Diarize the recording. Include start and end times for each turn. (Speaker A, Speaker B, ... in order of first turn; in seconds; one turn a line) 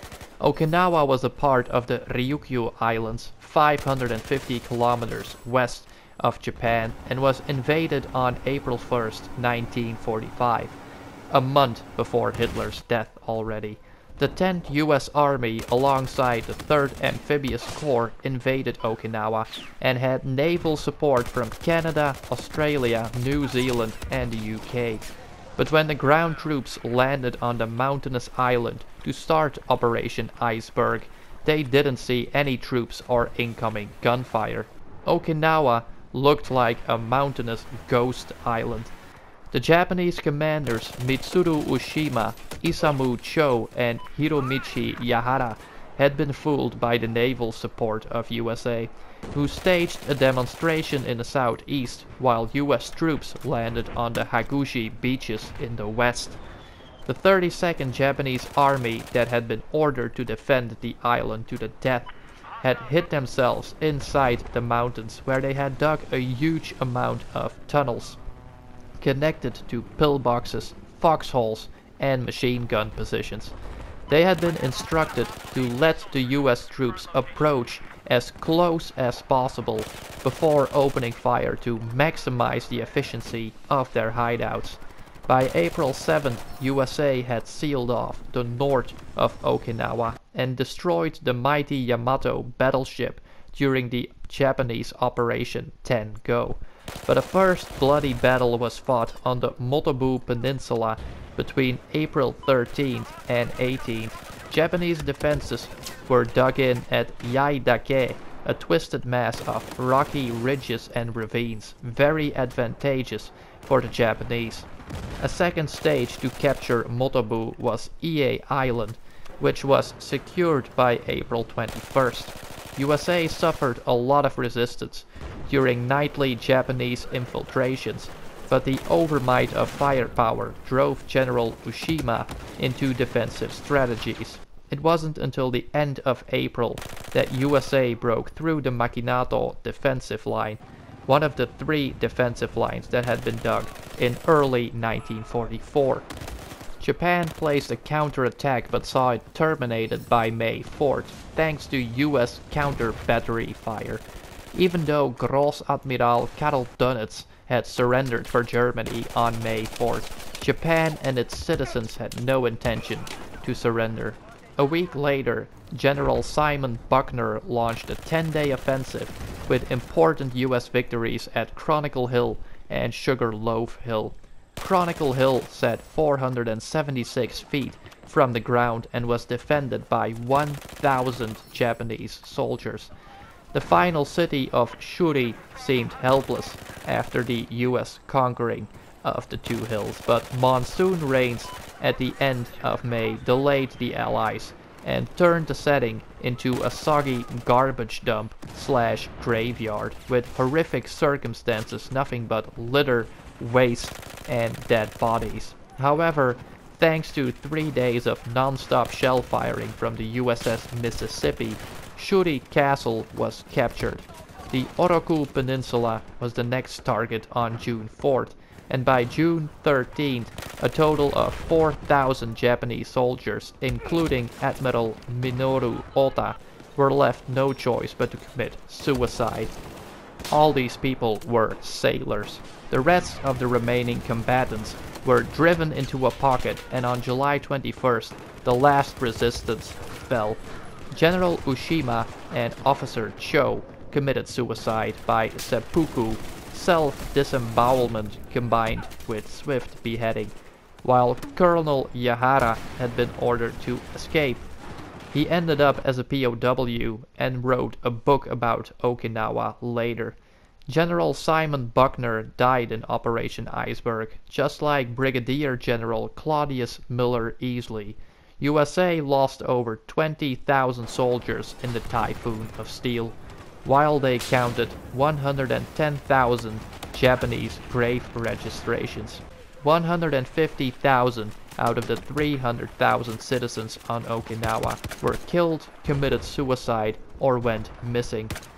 Speaker A: 0.4-10.8
Speaker A: 11.3-25.0
Speaker A: 25.6-38.9
Speaker A: 39.5-56.4
Speaker A: 57.1-68.2
Speaker A: 69.0-73.5
Speaker A: 74.1-114.7
Speaker A: 115.2-146.1
Speaker A: 146.8-182.9
Speaker A: 183.5-229.5
Speaker A: 230.3-240.4
Speaker A: 240.9-254.5
Speaker A: 255.1-260.2
Speaker A: 260.7-288.3